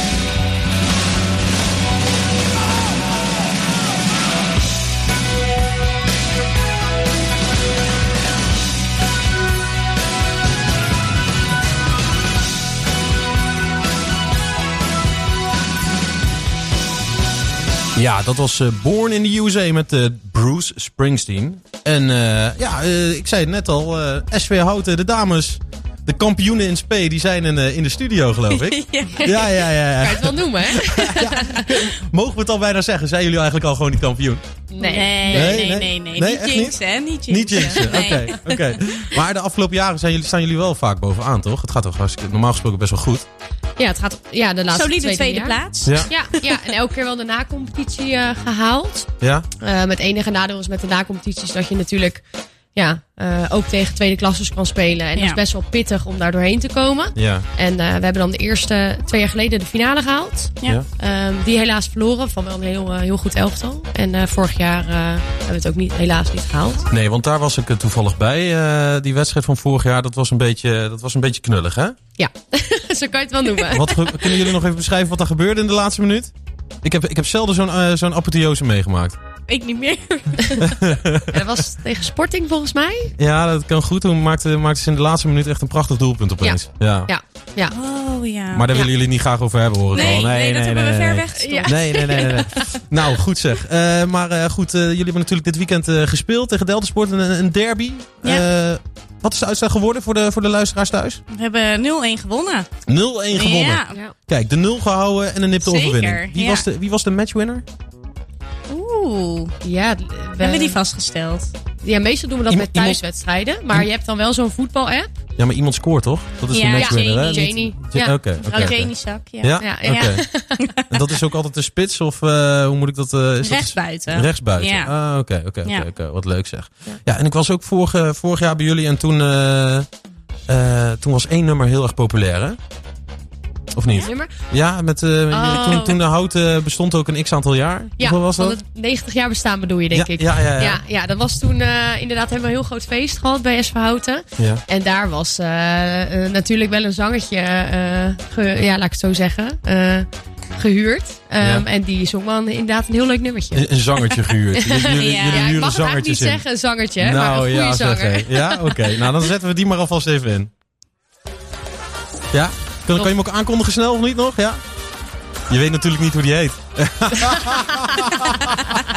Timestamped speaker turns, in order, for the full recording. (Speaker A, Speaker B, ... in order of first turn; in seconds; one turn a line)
Speaker A: 17.9-34.4
Speaker B: 28.6-29.4
Speaker C: 30.0-31.6
Speaker C: 34.7-35.6
Speaker B: 34.9-38.6
Speaker A: 35.3-43.2
Speaker C: 43.8-66.8
Speaker B: 44.7-46.2
Speaker A: 49.2-49.5
Speaker A: 57.1-57.5
Speaker A: 66.9-72.0
Speaker C: 72.2-74.4
Speaker A: 73.7-79.2
Speaker B: 79.5-80.7
Speaker C: 80.5-80.7
Speaker A: 80.6-81.4
Speaker C: 81.3-83.1
Speaker A: 83.2-87.1
Speaker C: 86.4-87.7
Speaker B: 87.7-88.7
Speaker A: 88.5-101.2
Speaker B: 89.9-92.4
Speaker C: 89.9-90.3
Speaker C: 91.4-92.6
Speaker B: 101.3-102.7
Speaker A: 102.8-107.6
Speaker B: 103.3-104.0
Speaker B: 105.6-106.6
Speaker B: 108.7-109.5
Speaker C: 109.6-110.8
Speaker B: 110.4-111.5
Speaker C: 111.8-115.1
Speaker A: 112.5-113.0
Speaker A: 115.4-120.2
Speaker B: 116.5-117.7
Speaker C: 116.7-118.8
Speaker B: 118.4-120.9
Speaker C: 119.6-120.7
Speaker A: 120.8-129.9
Speaker B: 123.4-124.9
Speaker A: 130.5-132.6
Speaker A: 133.7-138.6
Speaker C: 133.9-134.3
Speaker C: 135.3-136.0
Speaker C: 138.0-153.7
Speaker A: 139.9-140.8
Speaker A: 153.5-156.4
Speaker C: 154.6-159.0
Speaker B: 154.9-155.6
Speaker A: 157.0-160.5
Speaker A: 162.3-164.6
Speaker A: 165.5-168.3